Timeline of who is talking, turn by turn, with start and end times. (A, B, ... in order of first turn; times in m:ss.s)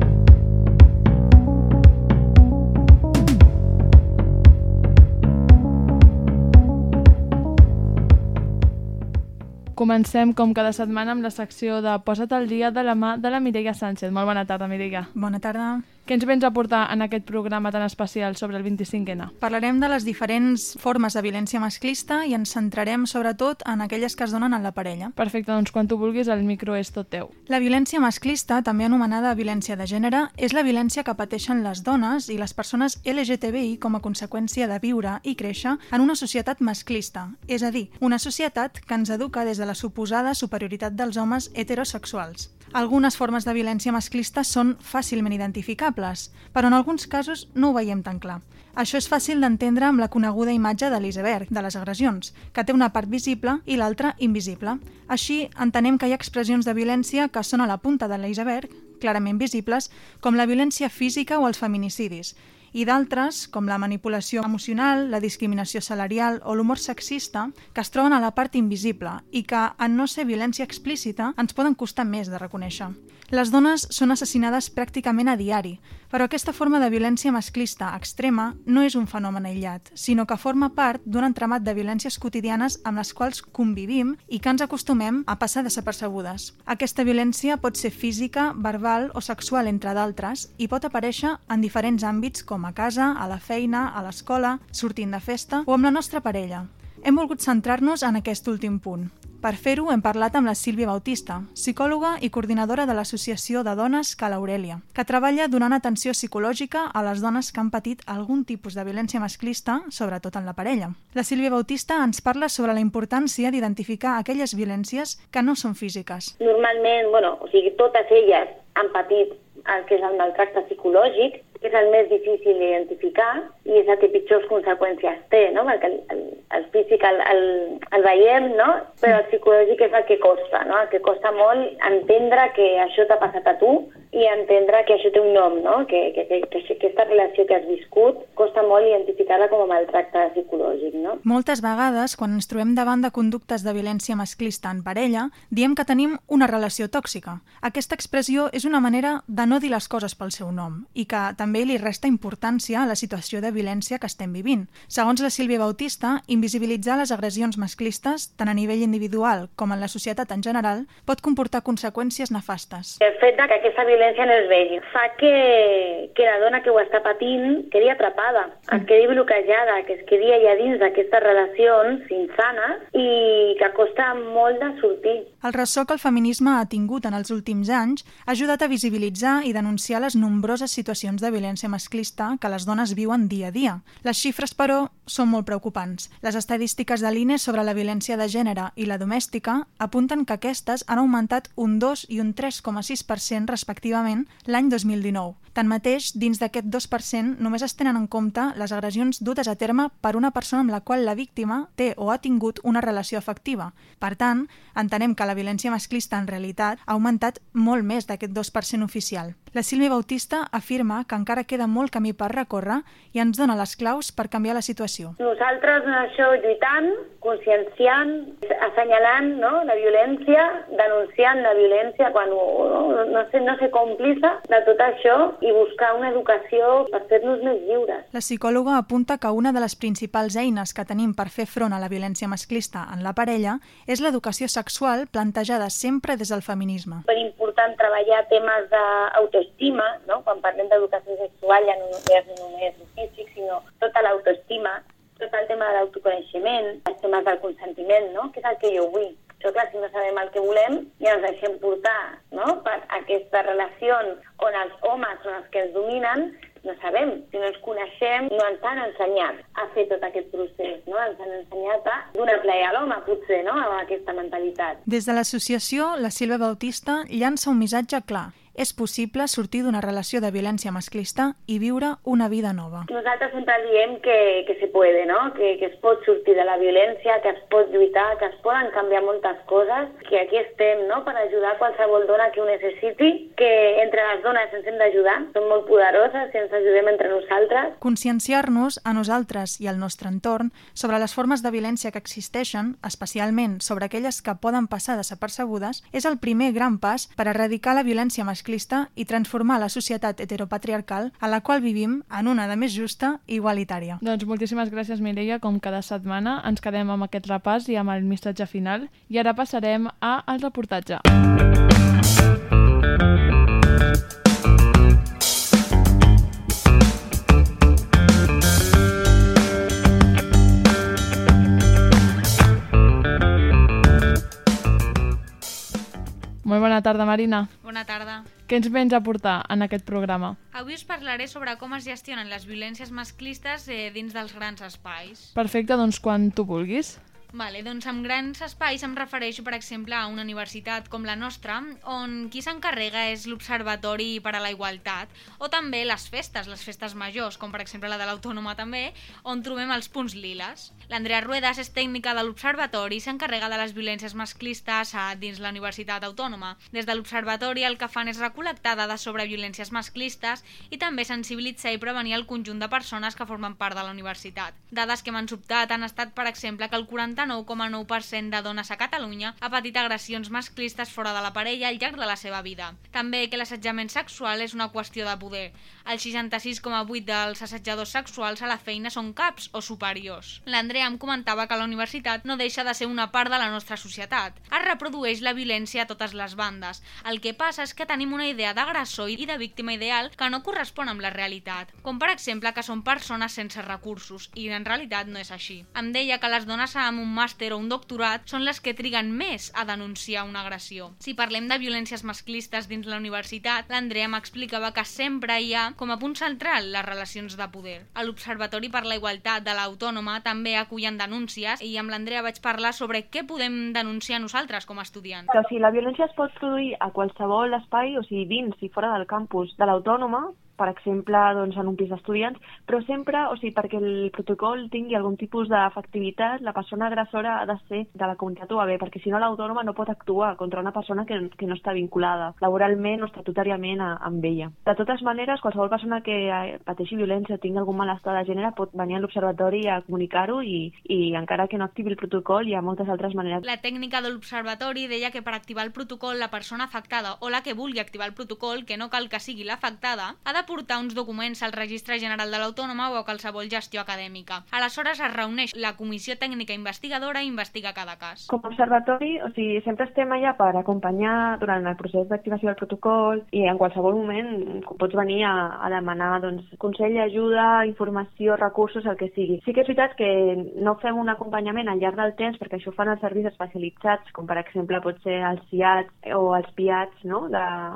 0:09.8-0:15.1 A
0:15.1-0:15.8 B
0:16.1-0:19.3 A
0:19.4-0:25.1 B
0:25.2-0:27.3 A
0:27.5-1:56.3 B
1:56.4-2:21.2 C
2:21.2-2:43.0 B
2:43.0-2:55.3 C
2:55.4-3:35.2 B
3:35.2-3:48.1 C
3:48.1-3:57.0 B
3:57.1-4:24.8 C
4:24.9-4:32.9 B
4:32.9-4:47.8 C
4:47.8-5:04.0 B
5:04.0-5:11.0 A
5:26.4-5:27.5 A
5:27.6-5:28.3 D
5:28.5-5:30.4 A
5:30.5-5:35.3 D
5:35.4-5:37.0 A
5:37.3-6:55.3 D
6:55.3-7:04.0 E
7:05.4-7:06.8 E
7:08.2-7:08.6 E
7:10.3-7:10.7 E
7:11.3-7:23.3 E
7:23.4-7:38.3 D
7:38.3-7:38.8 E
7:39.4-7:57.3 E